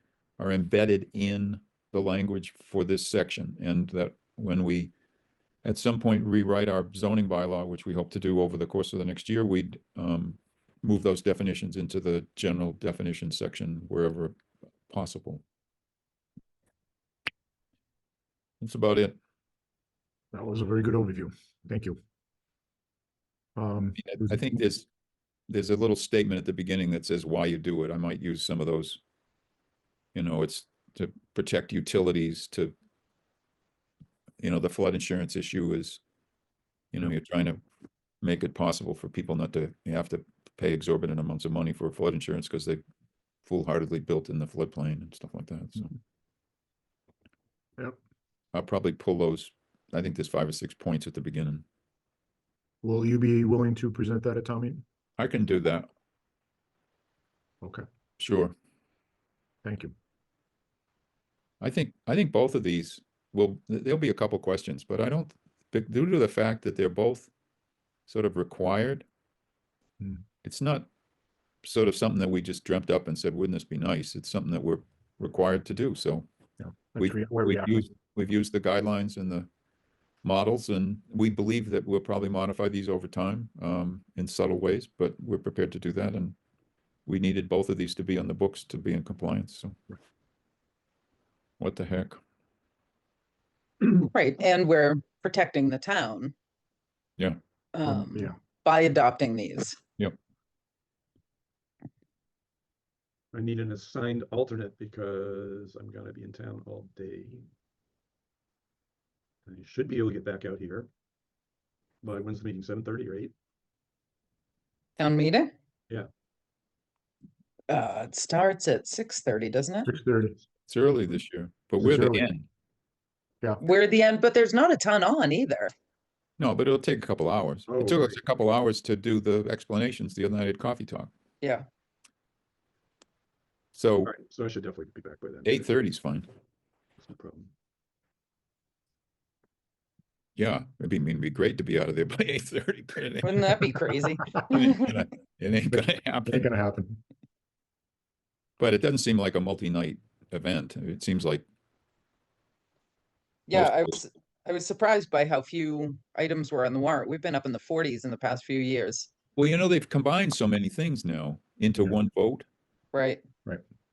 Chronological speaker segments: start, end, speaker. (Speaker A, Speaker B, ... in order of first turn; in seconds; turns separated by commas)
Speaker A: 0.4-4.9, Speaker A: 5.6-14.3, Speaker A: 14.9-15.4, Speaker A: 18.6-19.2, Speaker B: 20.3-22.0, Speaker B: 23.6-24.5, Speaker A: 24.0-24.9, Speaker A: 25.5-29.0, Speaker A: 30.1-32.7, Speaker A: 34.4-36.0, Speaker A: 36.9-37.6, Speaker A: 38.2-42.8, Speaker A: 43.4-45.9, Speaker A: 48.5-51.6, Speaker B: 52.8-54.8, Speaker A: 55.2-55.9, Speaker A: 58.2-58.5, Speaker B: 59.6-59.9, Speaker A: 61.6-67.3, Speaker A: 68.1-69.0, Speaker A: 70.4-70.9, Speaker A: 71.6-76.2, Speaker B: 76.6-77.9, Speaker A: 77.0-79.5, Speaker A: 80.2-86.3, Speaker A: 87.0-89.8, Speaker A: 91.6-92.2, Speaker C: 93.9-96.3, Speaker C: 97.7-99.8, Speaker B: 97.9-98.3, Speaker D: 103.3-107.5, Speaker D: 109.5-110.9, Speaker D: 112.0-113.3, Speaker C: 115.0-115.5, Speaker C: 117.7-119.9, Speaker B: 119.8-120.4, Speaker A: 120.7-122.5, Speaker B: 121.8-122.3, Speaker C: 123.6-125.7, Speaker A: 126.4-131.1, Speaker D: 127.7-128.2, Speaker A: 133.7-134.1, Speaker D: 134.0-135.7, Speaker A: 135.4-136.3, Speaker D: 137.0-137.5, Speaker A: 140.3-143.7, Speaker C: 143.2-144.9, Speaker A: 144.4-146.5, Speaker B: 145.7-147.0, Speaker A: 148.6-151.4, Speaker C: 153.5-159.1, Speaker A: 153.5-154.0, Speaker A: 159.3-162.4, Speaker C: 162.9-163.2